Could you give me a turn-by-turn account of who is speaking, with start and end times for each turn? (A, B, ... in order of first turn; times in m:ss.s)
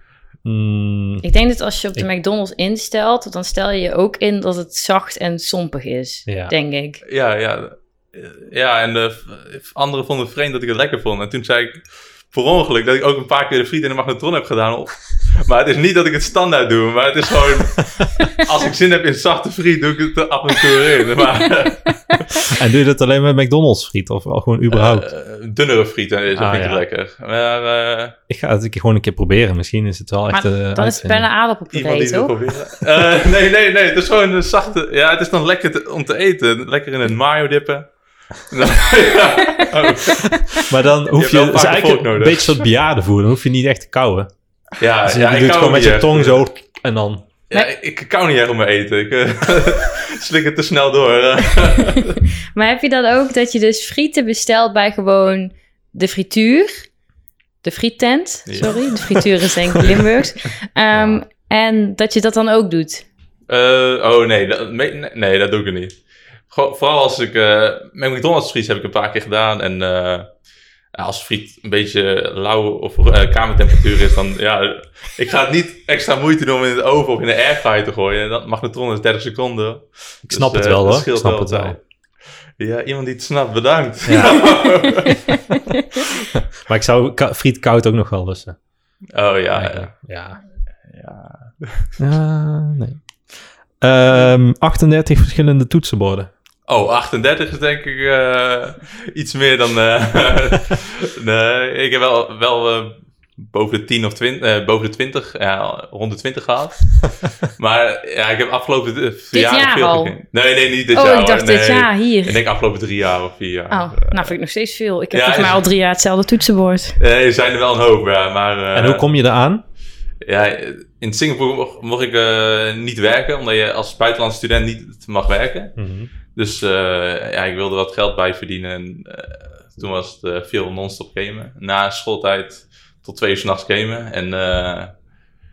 0:00.4-0:01.2 A
0:01.2-0:07.0 B
0:06.3-0:06.5 A
0:07.0-0:22.6 C
0:22.1-0:22.4 B
0:22.5-0:25.1 A
0:24.7-0:28.2 C
0:26.3-0:26.8 A
0:28.3-0:31.3 A
0:30.3-0:32.3 B
0:31.7-0:42.6 C
0:40.5-0:44.3 A
0:44.8-0:46.4 C
0:45.1-0:47.2 A
0:47.5-0:52.2 C
0:52.5-0:56.9 B
0:57.6-1:03.1 B
0:58.5-0:59.3 C
1:03.5-1:10.3 C
1:10.9-1:21.8 C
1:20.3-1:21.8 A
1:22.6-1:25.3 C
1:24.0-1:24.5 A
1:25.3-1:25.8 B
1:26.3-1:28.6 A
1:29.1-1:29.9 C
1:29.5-1:30.4 A
1:30.9-1:31.9 C
1:32.0-1:36.3 A
1:36.7-1:54.3 C
1:49.3-1:50.1 B
1:50.9-1:52.4 B
1:53.7-1:57.0 B
1:55.1-1:55.6 C
1:57.0-1:59.1 C
1:58.7-1:59.6 A
2:00.2-2:05.8 C
2:05.8-2:06.1 A
2:06.3-2:14.9 C